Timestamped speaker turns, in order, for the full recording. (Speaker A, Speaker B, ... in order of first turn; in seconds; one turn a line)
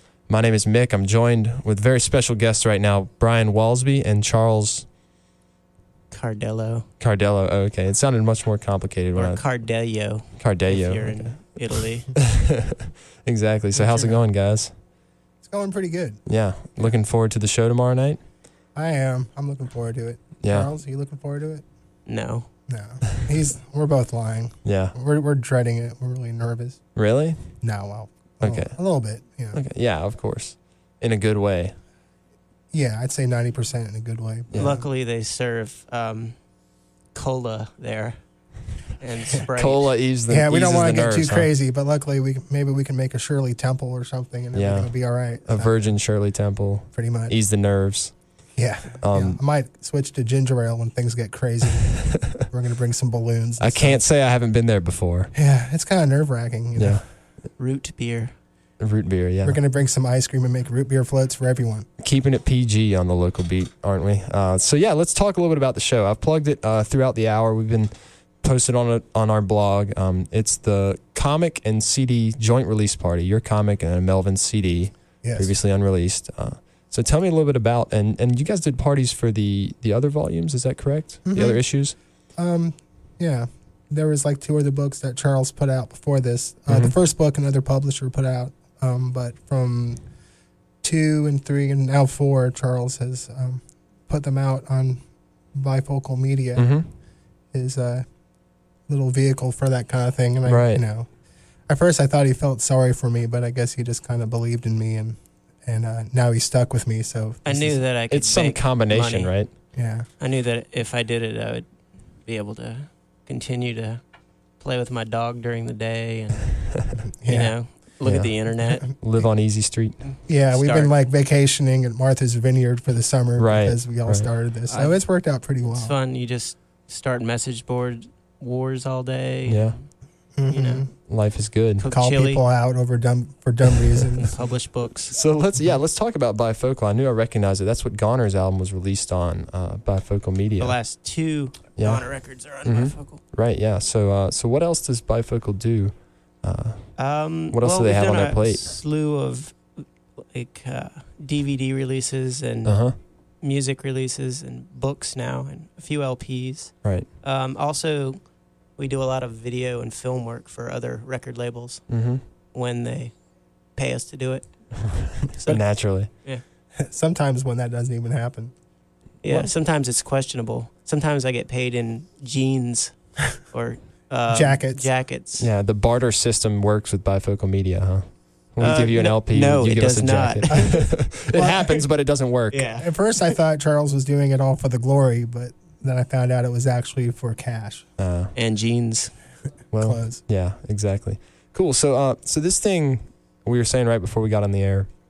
Speaker A: 0.3-4.8
Speaker B: 6.1-6.9
Speaker A: 7.0-9.4
Speaker B: 9.1-12.1
Speaker A: 10.4-11.3
Speaker A: 12.1-14.7
Speaker C: 13.7-14.2
Speaker C: 15.4-16.2
Speaker A: 16.3-18.2
Speaker C: 18.7-21.6
Speaker A: 20.4-20.7
Speaker B: 22.1-22.5
Speaker C: 22.7-26.8
Speaker A: 24.6-24.9
Speaker A: 26.9-27.4
Speaker C: 27.6-29.6
Speaker A: 28.4-28.7
Speaker A: 29.5-31.8
Speaker C: 32.7-34.9
Speaker B: 34.5-36.4
Speaker B: 37.1-38.2
Speaker B: 39.0-39.9
Speaker A: 39.5-41.5
Speaker C: 40.3-45.9
Speaker A: 44.5-44.9
Speaker A: 45.5-48.1
Speaker C: 46.9-47.4
Speaker C: 48.5-54.0
Speaker A: 49.0-49.4
Speaker A: 53.6-55.3
Speaker C: 55.3-57.0
Speaker A: 56.8-57.0
Speaker B: 57.6-58.3
Speaker A: 58.8-59.6
Speaker C: 59.4-61.9
Speaker A: 62.0-81.9
Speaker C: 75.2-75.5
Speaker C: 81.2-81.7
Speaker C: 82.3-90.0
Speaker A: 86.7-86.9
Speaker C: 90.8-95.0
Speaker C: 95.5-96.7
Speaker A: 96.5-96.8
Speaker C: 97.5-98.0
Speaker C: 98.9-101.1
Speaker A: 100.5-100.8
Speaker C: 101.7-107.8
Speaker B: 107.4-109.3
Speaker A: 108.1-109.5
Speaker C: 109.7-110.1
Speaker B: 110.2-111.7
Speaker B: 112.2-114.0
Speaker B: 114.6-116.5
Speaker C: 117.0-117.5
Speaker B: 117.3-118.8
Speaker A: 118.0-118.3
Speaker A: 119.0-120.0
Speaker B: 120.1-120.9
Speaker C: 120.3-125.9
Speaker A: 123.4-124.3
Speaker B: 124.7-125.0
Speaker B: 125.7-129.8
Speaker A: 129.5-129.8
Speaker C: 130.3-130.9
Speaker B: 130.5-130.9
Speaker A: 131.1-131.8
Speaker B: 131.8-132.4
Speaker C: 131.8-134.3
Speaker B: 134.2-135.1
Speaker A: 135.1-140.8
Speaker B: 140.6-143.2
Speaker A: 141.8-142.1
Speaker A: 142.6-146.9
Speaker B: 147.0-152.8
Speaker A: 147.5-148.7
Speaker A: 152.6-152.9
Speaker B: 153.4-158.2
Speaker B: 158.8-161.8
Speaker A: 161.9-162.2
Speaker B: 162.5-163.1
Speaker B: 163.8-164.5
Speaker B: 165.2-166.4
Speaker A: 165.4-166.1
Speaker C: 166.8-168.5
Speaker B: 169.2-175.5
Speaker C: 174.3-174.8
Speaker A: 175.4-182.6
Speaker B: 178.6-180.7
Speaker C: 180.5-181.9
Speaker B: 182.5-182.9
Speaker C: 182.8-187.9
Speaker A: 188.0-188.3
Speaker B: 188.3-189.1
Speaker A: 189.7-194.9
Speaker C: 189.8-190.2